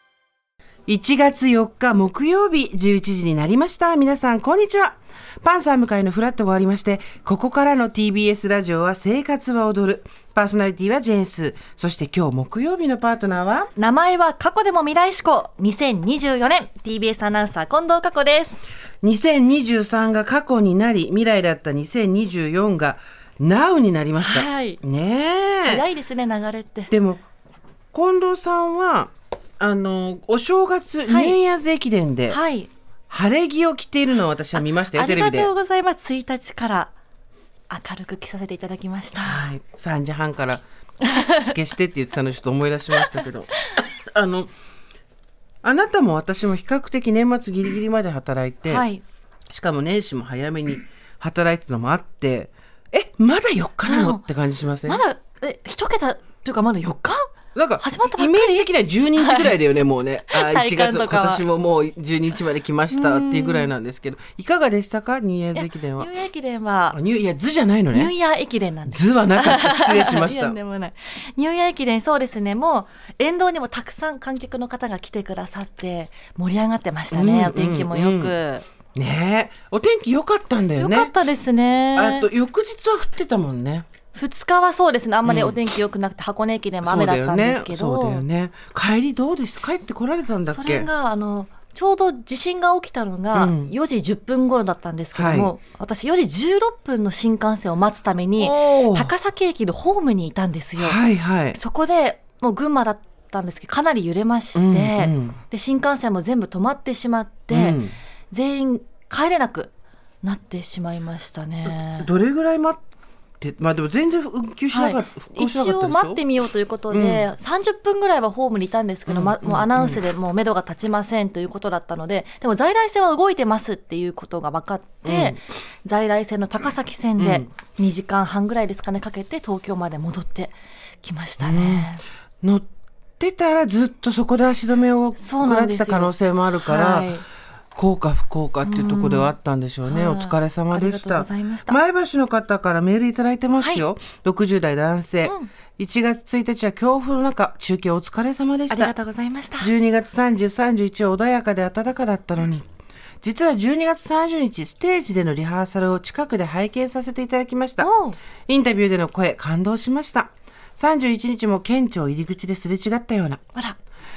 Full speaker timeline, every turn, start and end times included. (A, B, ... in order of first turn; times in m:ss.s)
0:00.9-0:13.7 A
0:13.8-0:18.6 B
0:19.0-0:25.8 A
0:24.2-0:24.8 B
0:25.6-0:26.9 B
0:26.9-0:27.2 A
0:27.9-0:32.4 A
0:31.1-0:31.4 B
0:32.3-0:32.7 B
0:33.1-0:35.5 A
0:34.6-0:36.9 B
0:37.7-0:39.5 B
0:39.2-0:44.5 A
0:41.0-0:41.5 B
0:43.0-0:43.8 B
0:45.6-0:48.9 A
0:48.7-0:49.0 B
0:49.5-0:55.0 A
0:53.8-0:54.2 B
0:54.9-0:57.2 B
0:57.6-1:06.1 A
0:57.8-0:59.5 B
1:00.3-1:01.4 B
1:02.9-1:03.7 B
1:05.6-1:07.0 B
1:06.9-1:08.1 A
1:07.9-1:18.7 B
1:08.9-1:10.6 A
1:17.1-1:18.3 A
1:19.0-1:21.1 A
1:20.8-1:22.3 B
1:22.0-1:23.9 A
1:24.1-1:28.2 B
1:25.2-1:25.6 A
1:26.8-1:30.9 A
1:30.5-1:41.0 B
1:33.3-1:33.7 A
1:35.1-1:35.5 A
1:38.4-1:39.1 A
1:40.8-1:41.6 A
1:41.5-1:47.8 B
1:44.6-1:45.4 A
1:47.5-1:48.0 A
1:48.3-1:49.7 B
1:50.2-1:52.1 B
1:51.6-1:52.8 A
1:53.4-1:56.2 A
1:54.7-2:12.0 B
1:56.9-1:57.3 A
1:59.1-2:00.0 A
2:05.0-2:05.4 A
2:07.2-2:07.5 A
2:11.4-2:11.9 A
2:12.4-2:12.7 A
2:13.2-2:17.2 A
2:15.2-2:17.2 B
2:17.8-2:28.9 A
2:18.6-2:19.3 B
2:19.8-2:21.8 B
2:23.6-2:23.8 B
2:25.2-2:25.5 B
2:28.7-2:29.7 B
2:29.6-2:32.6 A
2:33.2-2:37.9 A
2:37.8-2:38.2 B
2:38.5-2:43.4 A